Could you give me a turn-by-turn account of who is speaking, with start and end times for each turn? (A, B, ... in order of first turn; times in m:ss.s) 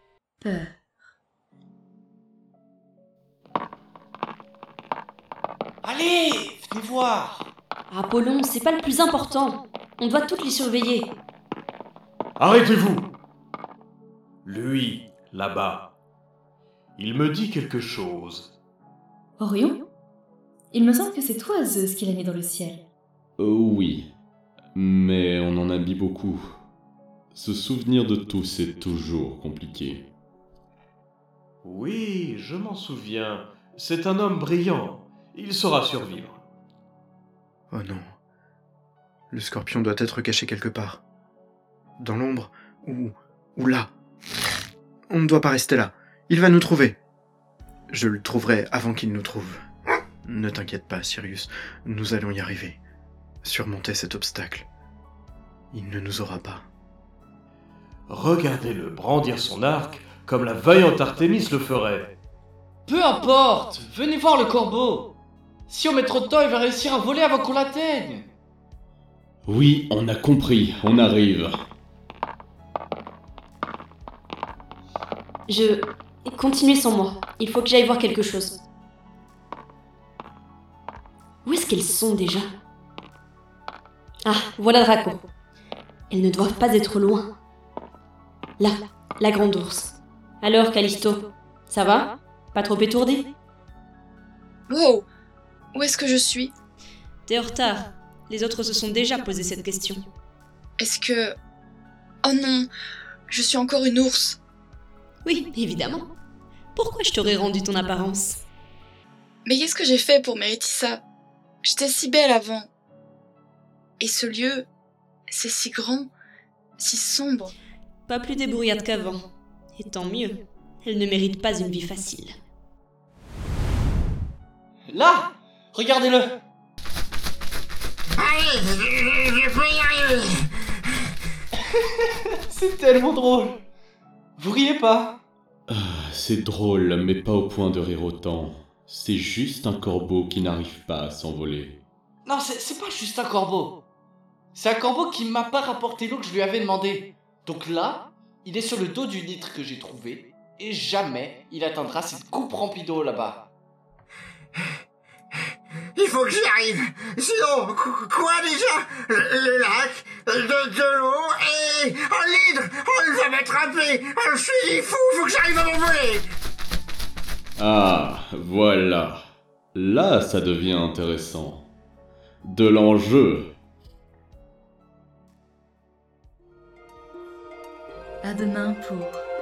0:00.4-0:00.7 A
0:05.8-0:07.5 B
0:07.9-0:11.1 C
0:12.4-0:13.1 D
0:14.4-0:15.9 D
0:17.0-0:18.5 D
0:19.4-0:19.8 A
0:20.7-0:22.8 A
0:23.4-0:24.1 E
0:24.8-0:26.4 E
0:27.3-0:30.0 E
0:31.6-0:36.4 D
0:37.7-0:38.1 F
0:39.3-0:41.0 F
0:42.0-0:43.9 F
0:45.1-0:47.0 F
0:47.9-0:49.6 F
0:50.2-0:52.8 F
0:53.4-0:54.7 F
0:55.7-0:56.7 F
0:58.1-1:02.1 D
1:02.9-1:05.1 B
1:05.7-1:08.3 B
1:09.4-1:11.5 E
1:15.5-1:18.6 C
1:21.4-1:22.5 C
1:24.2-1:25.2 C
1:26.1-1:27.3 C
1:28.6-1:33.3 C
1:34.7-1:35.0 G
1:35.7-1:36.5 G
1:37.2-1:40.0 C
1:40.8-1:41.3 G
1:42.2-1:42.7 G
1:43.3-1:44.4 G
1:45.2-1:46.1 C
1:46.7-1:48.4 C
1:49.4-1:51.0 G
1:51.6-1:52.7 G
1:54.0-1:54.6 G
1:55.3-1:56.1 G
1:56.8-1:57.5 G
1:58.1-1:59.2 C
1:59.7-2:02.3 C
2:04.9-2:06.4 B
2:08.2-2:10.3 H
2:12.5-2:13.6 B
2:14.4-2:15.2 B
2:15.7-2:21.8 E
2:22.2-2:23.8 B
2:24.5-2:33.5 B
2:35.9-2:46.2 H
2:47.6-2:49.2 E
2:49.7-2:51.6 E
2:52.4-2:53.5 E
2:58.2-2:59.3 A